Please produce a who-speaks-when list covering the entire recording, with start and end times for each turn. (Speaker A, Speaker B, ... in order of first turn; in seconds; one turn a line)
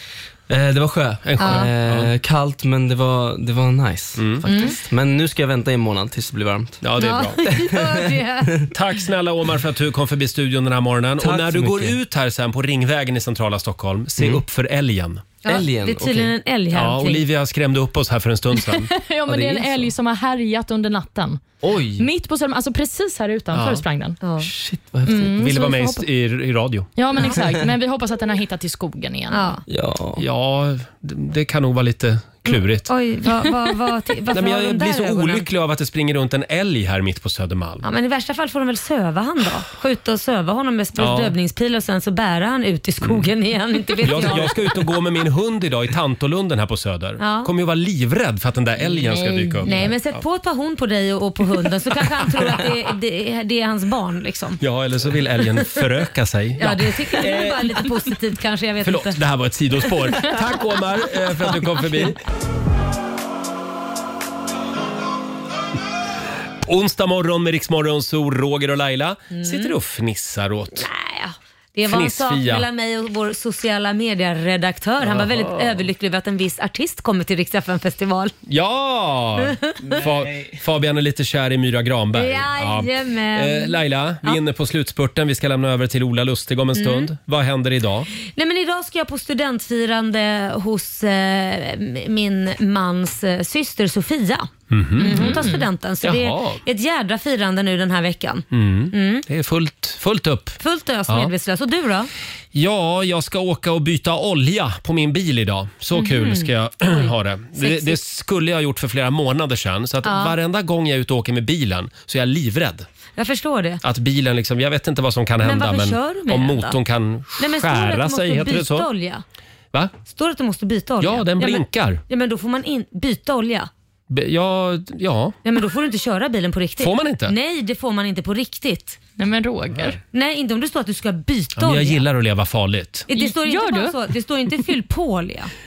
Speaker A: 0.5-6.8
Speaker B: 1.3-2.1
Speaker C: 1.4-1.7
Speaker B: 4.2-4.4
Speaker C: 4.5-4.8
Speaker B: 6.8-7.5
Speaker C: 7.0-8.7
Speaker A: 7.4-8.7
Speaker B: 8.7-15.3
Speaker A: 11.2-12.0
Speaker A: 14.2-14.4
Speaker A: 15.4-16.4
Speaker C: 15.4-17.2
Speaker B: 16.7-18.9
Speaker D: 18.5-21.4
Speaker A: 19.3-19.9
Speaker A: 21.6-22.1
Speaker D: 22.0-24.2
Speaker B: 23.5-23.8
Speaker C: 24.2-24.5
Speaker A: 24.4-25.4
Speaker D: 25.1-26.0
Speaker B: 25.4-26.9
Speaker D: 27.0-29.5
Speaker A: 27.2-27.6
Speaker C: 29.3-29.6
Speaker A: 29.7-30.2
Speaker B: 30.2-32.9
Speaker C: 32.9-35.5
Speaker B: 34.3-37.8
Speaker C: 37.8-44.5
Speaker B: 41.0-41.3
Speaker B: 44.0-50.0
Speaker C: 47.2-47.5
Speaker C: 49.0-54.6
Speaker B: 54.6-57.6
Speaker C: 56.6-59.2
Speaker B: 58.8-62.2
Speaker B: 66.6-70.9
Speaker C: 69.3-69.7
Speaker C: 70.8-78.3
Speaker B: 71.8-72.7
Speaker B: 75.0-75.9
Speaker B: 78.5-88.1
Speaker C: 79.5-80.0
Speaker C: 82.1-84.4
Speaker C: 86.8-87.1
Speaker C: 88.2-99.2
Speaker B: 94.7-95.5
Speaker D: 95.0-95.6
Speaker B: 96.0-96.6
Speaker B: 98.5-101.3
Speaker C: 100.6-102.1
Speaker B: 102.5-112.9
Speaker C: 105.9-108.0
Speaker C: 110.0-110.3
Speaker C: 113.2-113.8
Speaker B: 113.8-118.9
Speaker C: 115.4-116.8
Speaker C: 117.4-119.2
Speaker C: 120.1-123.7
Speaker B: 121.0-122.0
Speaker B: 124.1-125.3
Speaker C: 125.4-129.0
Speaker B: 126.8-127.3
Speaker D: 129.2-130.0
Speaker C: 130.1-132.0
Speaker B: 131.6-133.1
Speaker C: 133.1-135.5
Speaker D: 133.1-133.9